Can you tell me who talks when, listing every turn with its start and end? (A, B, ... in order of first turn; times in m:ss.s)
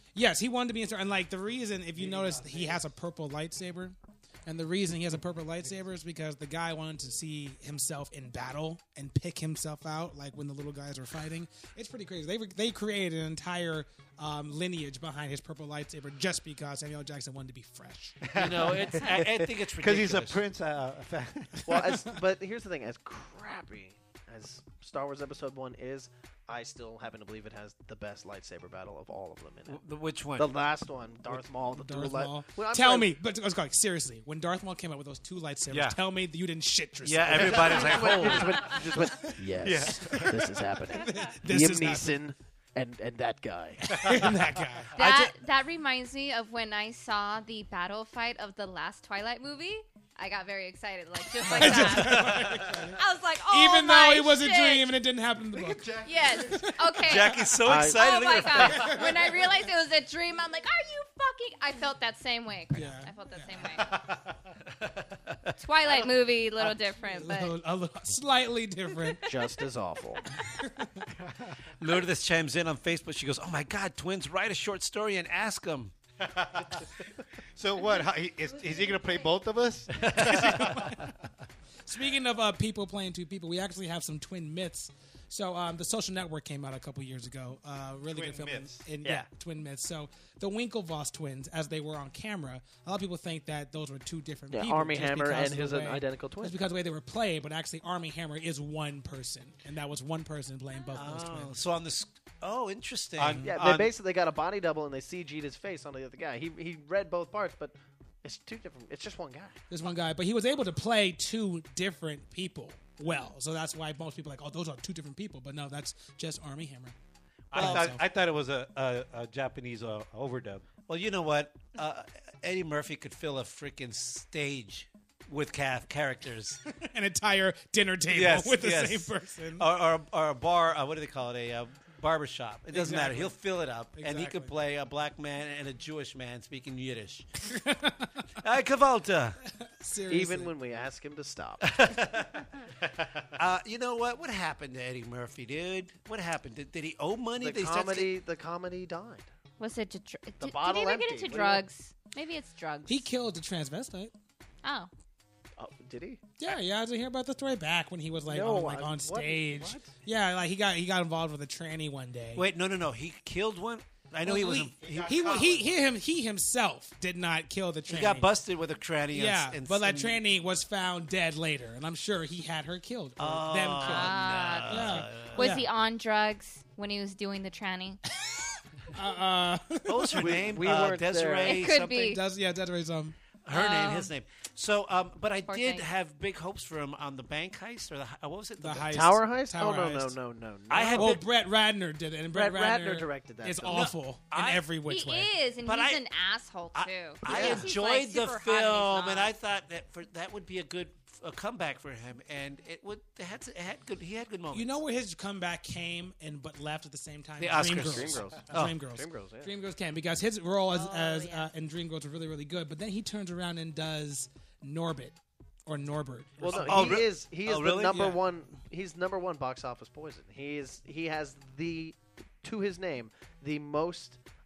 0:00.2-0:18.2 A
0:02.0-0:02.8 B
0:18.2-0:21.9 B
0:18.4-0:20.4 C
0:21.7-0:29.8 D
0:21.7-0:22.1 A
0:29.7-0:30.5 C
0:30.4-0:33.1 D
0:31.8-0:39.4 A
0:37.0-0:38.6 C
0:37.3-0:38.6 B
0:37.4-0:44.0 D
0:39.6-0:40.5 B
0:40.9-0:42.2 A
0:43.9-0:45.3 A
0:43.9-0:44.3 B
0:45.0-0:54.9 E
0:51.4-0:57.6 A
0:55.5-0:56.7 B
0:56.0-1:04.0 E
0:57.0-0:59.0 C
0:57.6-0:58.0 D
1:02.7-1:03.7 A
1:04.8-1:05.6 C
1:05.6-1:07.6 E
1:07.2-1:09.5 A
1:09.3-1:10.2 D
1:10.3-1:11.1 A
1:11.8-1:15.9 C
1:16.2-1:16.9 B
1:17.5-1:21.1 B
1:20.0-1:20.8 C
1:20.1-1:21.2 A
1:21.9-1:41.5 A
1:28.1-1:28.9 B
1:34.5-1:36.6 D
1:41.0-1:43.5 C
1:43.2-1:43.9 B
1:43.3-1:43.6 A
1:43.4-1:49.6 D
1:49.7-1:57.0 A
1:57.5-1:57.9 C
1:57.5-2:00.6 B
1:57.5-1:58.0 A
2:00.9-2:06.6 C
2:06.7-2:09.7 A
2:08.1-2:17.3 C
2:12.7-2:13.4 A
2:14.0-2:14.6 A
2:17.5-2:18.2 A
2:18.4-2:19.4 C
2:19.7-2:20.5 A
2:20.1-2:21.8 D
2:21.6-2:22.4 C
2:23.0-2:23.2 B
2:23.4-2:28.1 C
2:27.4-2:29.3 D
2:29.6-2:33.1 E
2:30.4-2:31.7 D
2:32.9-2:34.1 A
2:34.6-2:34.9 E
2:35.6-2:36.2 D
2:36.4-2:42.4 A
2:38.3-2:40.0 D
2:42.4-2:45.5 C
2:44.3-2:48.3 A
2:44.6-2:45.9 B
2:47.9-2:50.2 C
2:49.1-2:54.2 A
2:53.2-2:55.6 C
2:53.8-2:58.0 E
2:54.7-2:55.7 A
2:58.9-3:00.4 A
2:59.9-3:02.2 C
3:00.2-3:01.6 D
3:01.4-3:02.2 E
3:02.0-3:03.2 A
3:03.4-3:09.1 C
3:03.5-3:04.1 E
3:05.5-3:05.9 E
3:08.6-3:10.2 A
3:08.9-3:11.2 D
3:10.7-3:11.2 C
3:10.9-3:15.3 A
3:12.3-3:14.0 D
3:13.6-3:14.6 C
3:14.9-3:19.3 E
3:15.6-3:16.0 C
3:16.7-3:24.8 C
3:17.3-3:17.6 A
3:24.5-3:37.0 A
3:27.4-3:28.8 C
3:27.9-3:29.5 D
3:30.7-3:31.5 E
3:36.4-3:44.2 D
3:36.4-3:38.1 C
3:36.6-3:37.0 B
3:37.9-3:38.2 A